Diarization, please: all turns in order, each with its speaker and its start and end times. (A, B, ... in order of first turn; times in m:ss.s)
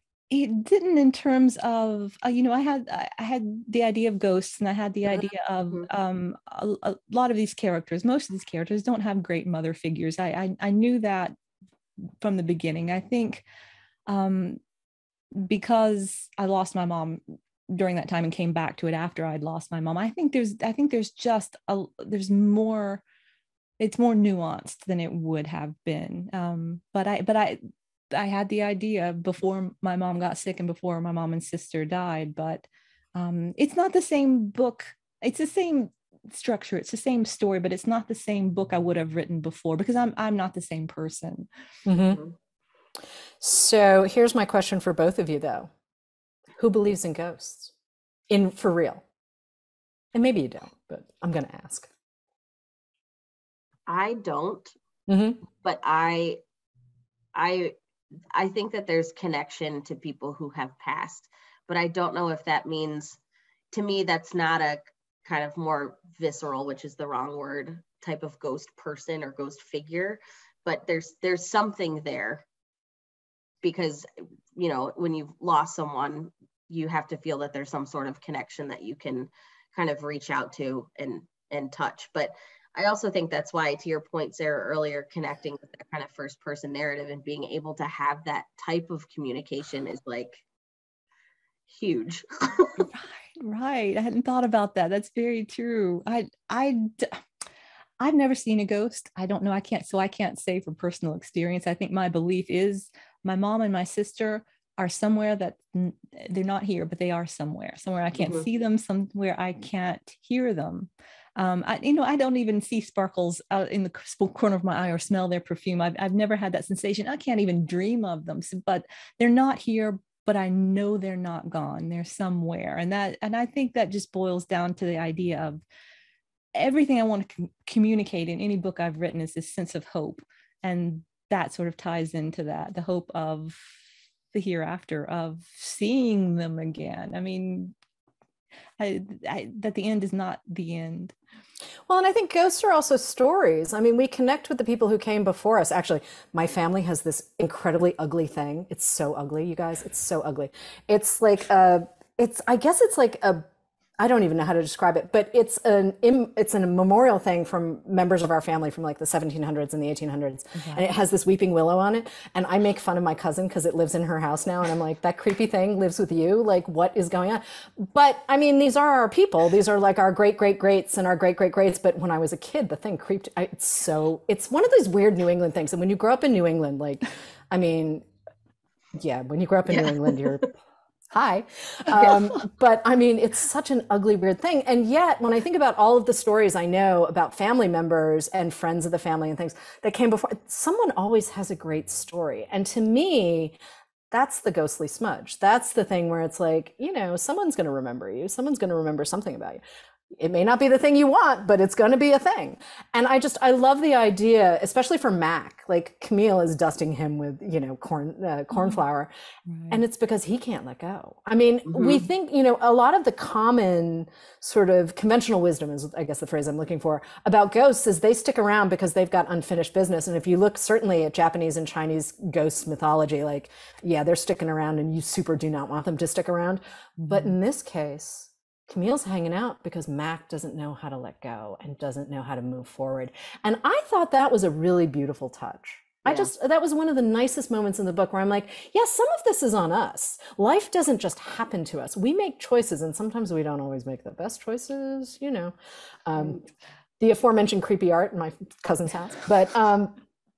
0:00.3-0:11.3 A
0:12.2-0:13.4 A
0:14.1-0:14.6 A
0:15.3-0:23.0 A
0:23.8-0:27.6 A
0:28.1-0:41.5 A
0:41.8-0:42.2 B
0:43.4-0:45.7 B
0:46.6-0:47.7 B
0:48.3-0:49.0 B
0:50.1-0:51.9 B
0:53.9-0:54.7 C
0:55.1-0:55.4 B
0:55.6-0:56.4 C
0:57.3-0:57.7 C
0:58.3-1:03.2 C
1:03.7-1:12.4 C
1:13.6-1:30.4 C
1:31.7-1:32.9 C
1:32.9-1:37.2 A
1:38.0-2:05.6 A
1:48.1-1:48.4 C
2:06.5-2:13.8 A
2:14.3-2:17.7 A
2:18.8-2:21.1 A
2:21.9-2:33.4 B
2:34.0-2:58.1 B
2:40.6-2:40.8 A
2:59.0-3:00.5 B
2:59.7-3:00.4 C
3:01.1-3:13.6 B
3:14.1-3:19.6 B
3:20.2-3:29.1 B
3:29.5-3:29.8 A
3:29.7-4:05.5 B
3:31.7-3:32.0 C
3:47.0-3:47.3 A
4:06.1-4:06.4 B
4:07.0-4:09.9 B